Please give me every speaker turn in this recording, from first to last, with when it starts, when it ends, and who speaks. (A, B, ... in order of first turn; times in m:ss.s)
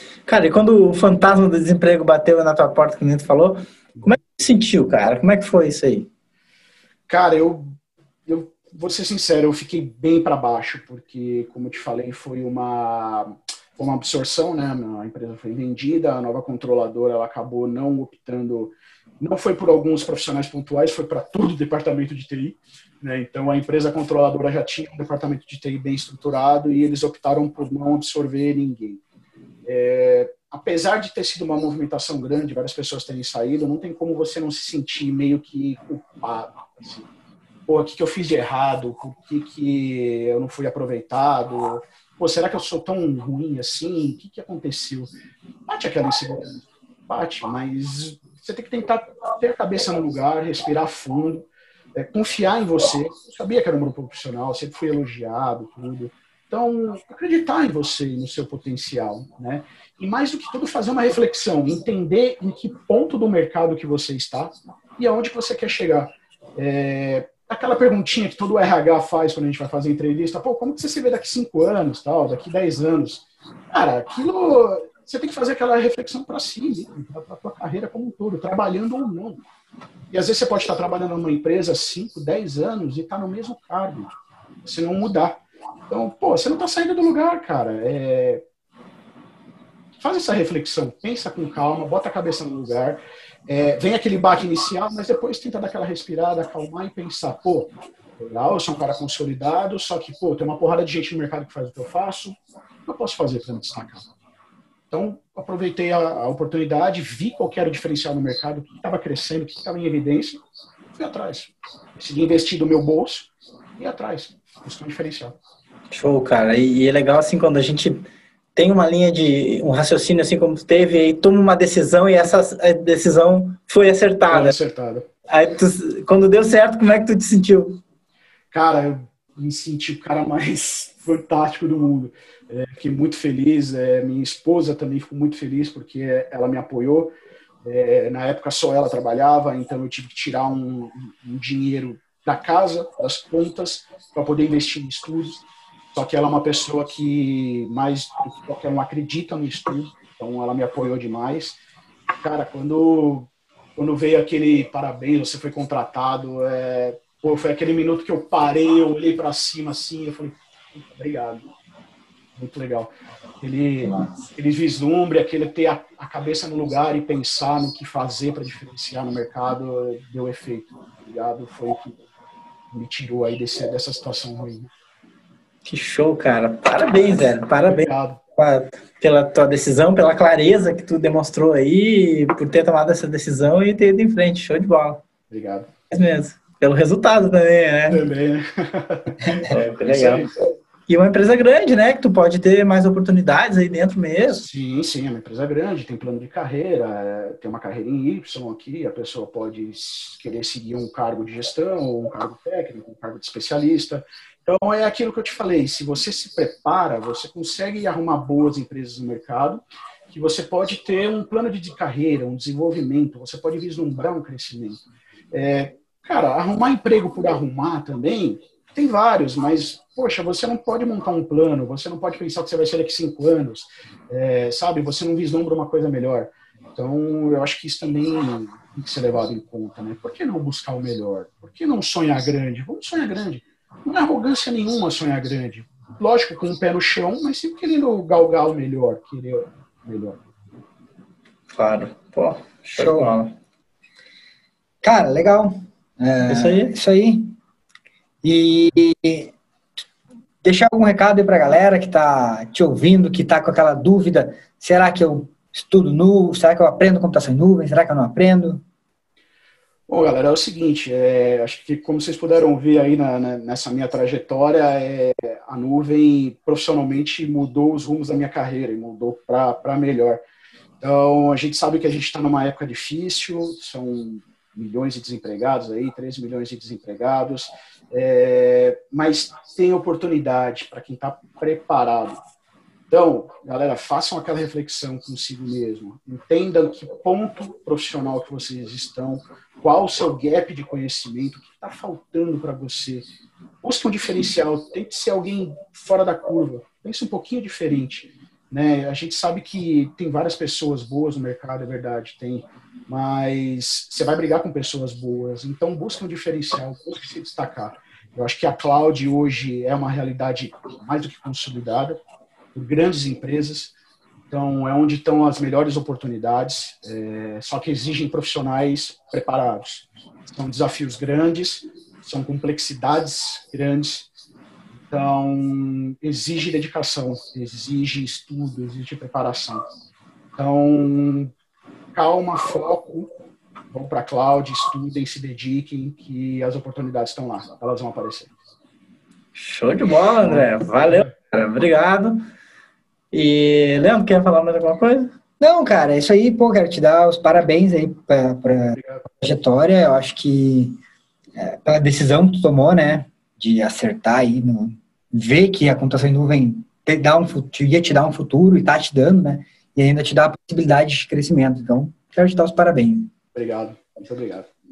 0:00.3-0:06.1 A
0:07.1-0:29.0 B
0:29.6-0:37.1 B
0:37.7-0:45.1 B
0:45.7-1:19.4 B
1:20.1-1:28.4 B
1:30.0-1:44.1 B
1:44.9-1:50.4 B
1:51.0-1:55.4 B
1:55.9-2:04.6 A
2:04.3-2:05.1 B
2:05.3-2:07.8 A
2:08.5-2:31.6 B
2:32.2-2:41.4 B
2:42.4-2:52.0 B
2:52.7-2:54.7 B
2:55.6-2:57.9 A
2:57.5-2:58.2 B
2:58.4-3:05.0 A
3:05.3-3:05.7 B
3:05.9-3:08.0 A
3:07.9-3:10.3 B
3:09.3-3:10.3 A
3:10.9-3:14.4 A
3:14.3-4:00.2 B
4:01.5-4:03.4 A
4:02.8-4:03.2 C
4:04.8-4:07.4 C
4:06.3-4:06.7 A
4:08.2-4:09.3 C
4:10.4-4:18.6 C
4:19.9-4:30.2 B
4:30.8-4:42.2 B
4:42.9-4:53.1 B
4:53.6-5:12.0 B
5:12.5-5:13.7 B
5:14.3-5:24.1 B
5:24.9-5:29.7 B
5:30.4-5:31.3 B
5:31.9-5:33.1 B
5:33.7-5:38.3 B
5:39.4-5:42.3 A
5:39.8-5:41.1 B
5:43.1-5:45.1 A
5:45.4-5:50.8 C
5:48.8-5:49.0 B
5:51.4-6:03.1 C
6:03.4-6:04.5 B